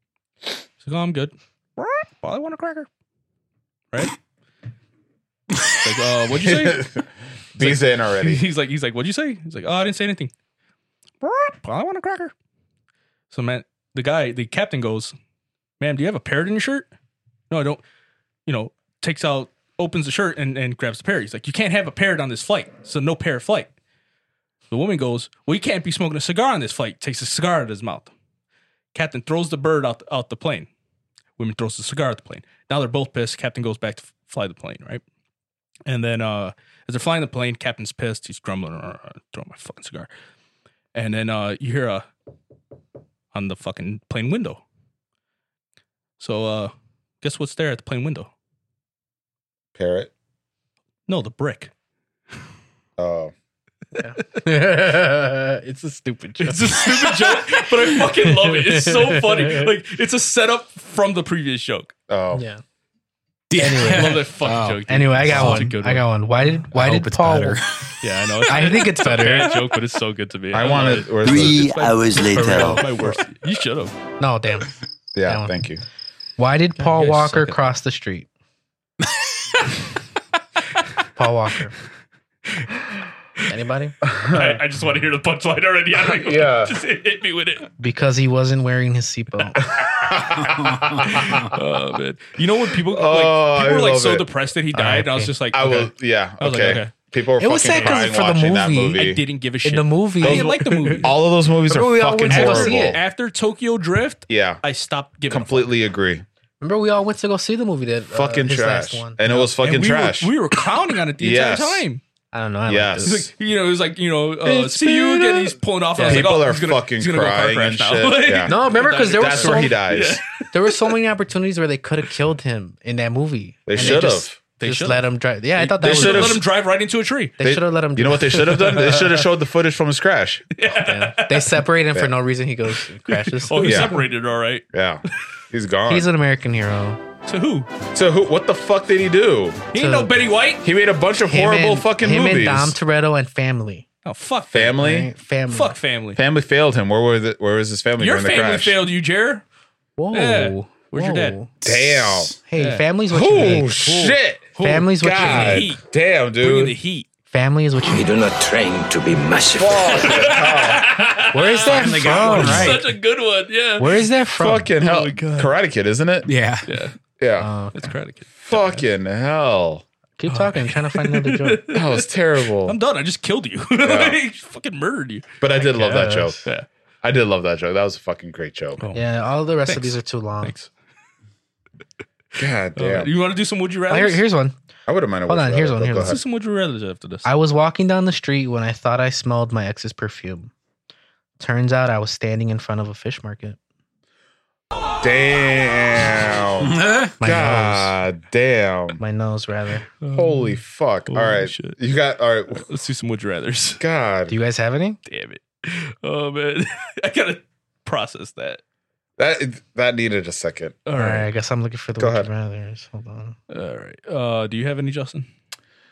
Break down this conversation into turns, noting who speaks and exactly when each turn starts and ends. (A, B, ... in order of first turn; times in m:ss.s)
0:00.8-0:02.9 A
0:05.8-0:06.9 A
0:06.3-0:08.4 B
0:07.6-0:10.3 A
0:11.2-0:12.3 A
0:13.3-0:15.1 A
0:15.8-0:16.9 A
0:17.5-0:17.8 A
0:18.5-0:23.7 A
0:24.7-0:28.1 A
0:28.9-0:30.7 A
0:31.4-0:35.0 A
0:35.9-0:40.1 A
0:41.0-0:42.1 A
0:43.3-0:44.6 A
0:46.2-0:48.3 A
0:49.8-0:50.1 B
0:51.1-0:51.7 A
0:53.0-0:53.3 B
0:54.0-0:59.7 C
0:56.4-1:01.9 A
1:02.1-1:02.4 B
1:02.3-1:02.6 C
1:03.5-1:05.7 D
1:03.6-1:04.3 C
1:03.8-1:06.1 A
1:04.9-1:07.6 C
1:06.7-1:08.0 D
1:08.0-1:13.9 A
1:08.5-1:09.5 C
1:10.5-1:11.7 B
1:11.2-1:12.8 E
1:14.2-1:14.7 C
1:15.2-1:15.8 B
1:15.2-1:15.6 C
1:16.4-1:18.3 C
1:16.8-1:17.6 A
1:21.2-1:21.8 C
1:23.5-1:24.0 C
1:24.0-1:24.6 B
1:24.3-1:27.7 A
1:26.1-1:26.8 B
1:27.8-1:29.6 C
1:29.6-1:31.6 B
1:31.0-1:36.9 A
1:32.8-1:39.2 B
1:34.9-1:35.3 C
1:37.4-1:39.0 C
1:39.0-1:41.2 A
1:39.6-1:41.0 C
1:40.2-1:43.0 B
1:41.7-1:43.0 C
1:42.3-1:45.7 A
1:44.3-1:44.6 B
1:45.3-1:46.2 B
1:46.6-1:49.5 C
1:48.1-1:50.3 B
1:49.6-1:52.0 A
1:51.2-1:51.8 B
1:52.3-1:53.3 C
1:52.7-1:53.2 B
1:53.0-2:01.0 A
1:54.5-1:58.6 B
1:56.0-1:56.4 C
1:58.5-2:06.4 C
1:59.1-2:00.2 B
2:03.7-2:04.4 B
2:03.8-2:07.4 A
2:05.8-2:06.4 B
2:07.4-2:09.2 C
2:07.4-2:10.5 B
2:10.6-2:11.6 A
2:10.8-2:14.0 C
2:13.1-2:14.6 A
2:13.6-2:14.0 B
2:14.7-2:16.1 B
2:15.9-2:17.0 C
2:17.3-2:17.7 A
2:17.9-2:19.6 B
2:19.7-2:20.7 A
2:19.7-2:20.1 C
2:20.6-2:22.8 B
2:21.3-2:23.8 C
2:24.0-2:24.8 A
2:24.5-2:25.1 B
2:24.7-2:25.8 C
2:25.5-2:26.2 A
2:26.2-2:28.8 B
2:28.0-2:29.4 A
2:30.0-2:33.8 C
2:30.1-2:31.4 A
2:31.6-2:32.4 B
2:32.6-2:35.8 A
2:33.1-2:36.8 B
2:34.6-2:35.7 C
2:36.4-2:37.1 A
2:37.3-2:38.1 C
2:37.8-2:40.2 E
2:39.5-2:40.9 B
2:40.0-2:44.1 A
2:41.3-2:42.9 C
2:41.6-2:42.8 D
2:41.9-2:42.8 B
2:43.8-2:44.7 C
2:44.4-2:46.3 B
2:44.8-2:45.6 A
2:46.3-2:46.8 D
2:46.7-2:47.0 A
2:47.2-2:47.5 B
2:47.4-2:47.9 C
2:47.8-2:48.8 A
2:48.4-2:49.8 B
2:50.2-2:51.7 C
2:50.3-2:55.4 A
2:51.7-2:52.8 B
2:53.8-2:54.2 B
2:55.4-2:56.4 B
2:55.6-2:56.4 C
2:57.0-2:58.8 B
2:58.8-2:59.0 A
2:58.9-3:00.6 C
2:59.6-3:00.7 A
3:02.4-3:03.1 B
3:02.8-3:04.2 A
3:03.9-3:04.6 C
3:04.9-3:06.2 B
3:05.3-3:06.2 C
3:06.0-3:07.3 A
3:07.2-3:10.5 C
3:11.4-3:13.6 C
3:15.0-3:19.0 B
3:16.6-3:17.1 D
3:17.2-3:18.0 C
3:19.0-3:19.9 C
3:20.0-3:21.8 A
3:20.1-3:22.6 B
3:22.5-3:23.8 A
3:23.8-3:24.3 B
3:24.3-3:25.0 C
3:25.1-3:28.6 A
3:29.2-3:30.8 B
3:30.9-3:31.3 A
3:30.9-3:33.4 C
3:32.0-3:32.3 B
3:33.5-3:35.3 A